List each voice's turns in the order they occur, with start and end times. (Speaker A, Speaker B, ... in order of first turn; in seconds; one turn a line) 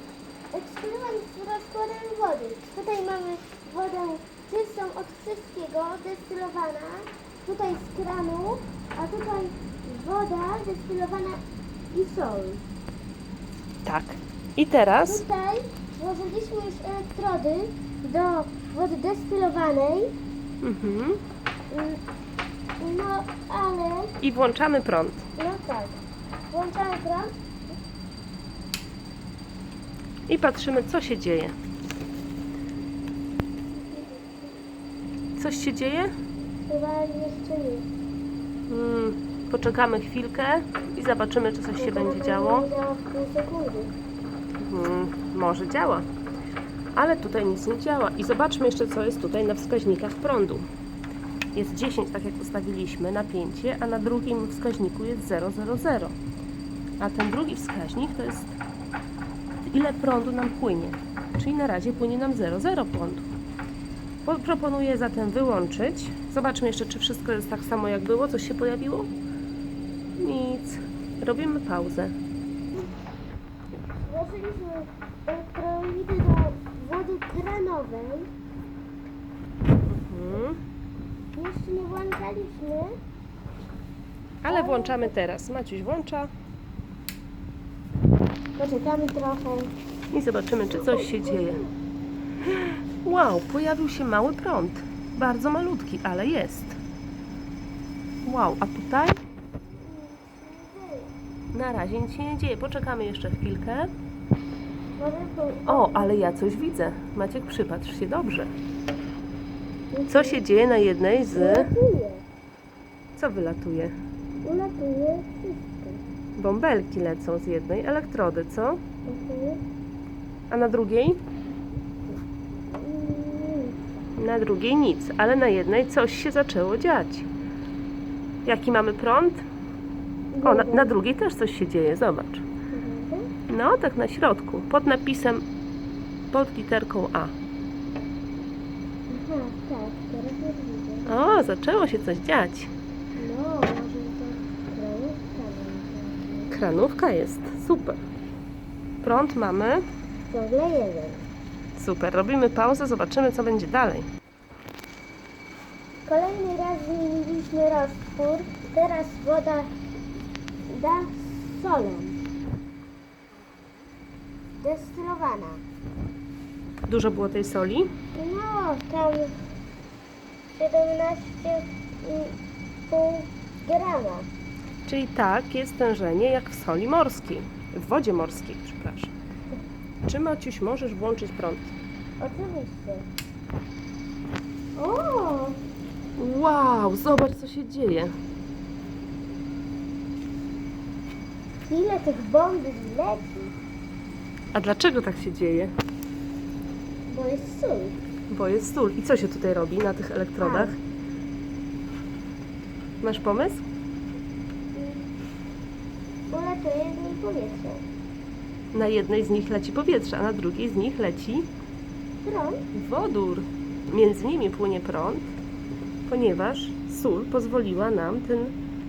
Speaker A: 0.5-11.4
Speaker A: 11.9-12.6
Speaker B: 13.8-15.2
Speaker A: 15.1-20.1
Speaker B: 20.6-21.2
Speaker A: 21.7-22.0
Speaker A: 22.8-24.1
Speaker B: 24.2-25.3
Speaker A: 25.4-26.0
Speaker A: 26.5-27.7
Speaker B: 30.3-31.5
Speaker A: 33.7-34.6
Speaker B: 35.4-36.1
Speaker A: 36.7-37.9
Speaker B: 38.7-42.7
Speaker A: 41.8-43.9
Speaker B: 44.6-46.1
Speaker B: 46.9-50.6
Speaker B: 51.5-56.1
Speaker B: 57.0-58.5
Speaker B: 59.7-63.2
Speaker B: 64.2-69.1
Speaker B: 70.2-72.1
Speaker A: 74.0-78.3
Speaker B: 79.9-80.6
Speaker A: 81.3-83.0
Speaker B: 84.4-86.3
Speaker A: 84.5-85.1
Speaker A: 88.6-89.7
Speaker B: 90.1-91.6
Speaker A: 90.7-91.7
Speaker B: 92.4-96.8
Speaker B: 98.2-99.2
Speaker A: 99.7-101.1
Speaker B: 101.5-103.9
Speaker A: 105.0-106.1
Speaker B: 105.7-108.5
Speaker A: 109.9-110.4
Speaker B: 110.1-111.7
Speaker A: 111.2-112.2
Speaker B: 113.2-113.9
Speaker A: 114.4-116.0
Speaker B: 116.4-118.8
Speaker A: 119.1-119.6
Speaker B: 120.5-121.2
Speaker A: 122.7-123.8
Speaker B: 124.2-127.3
Speaker B: 128.4-129.4
Speaker A: 130.3-130.9
Speaker B: 130.4-132.4
Speaker A: 132.7-133.3
Speaker B: 133.5-135.4
Speaker B: 136.3-137.3
Speaker A: 139.1-141.1
Speaker B: 141.1-142.7
Speaker A: 143.2-146.6
Speaker B: 146.5-148.0
Speaker B: 149.0-149.8
Speaker A: 150.3-151.3
Speaker B: 151.8-154.1
Speaker A: 156.1-159.7
Speaker A: 160.7-162.2
Speaker A: 164.6-165.6
Speaker B: 166.9-167.9
Speaker A: 168.2-169.3
Speaker A: 170.5-172.4
Speaker A: 172.9-174.3
Speaker B: 174.9-179.1
Speaker B: 180.1-181.8
Speaker A: 182.2-183.1
Speaker A: 184.8-185.6
Speaker B: 186.2-188.1
Speaker A: 191.7-193.6
Speaker B: 194.5-195.7
Speaker A: 197.1-198.0
Speaker B: 198.3-200.8
Speaker A: 200.4-200.7
Speaker B: 203.0-203.6
Speaker A: 204.8-205.1
Speaker A: 206.3-207.8
Speaker B: 208.7-211.5
Speaker A: 212.2-212.6
Speaker B: 212.7-215.2
Speaker B: 216.1-218.6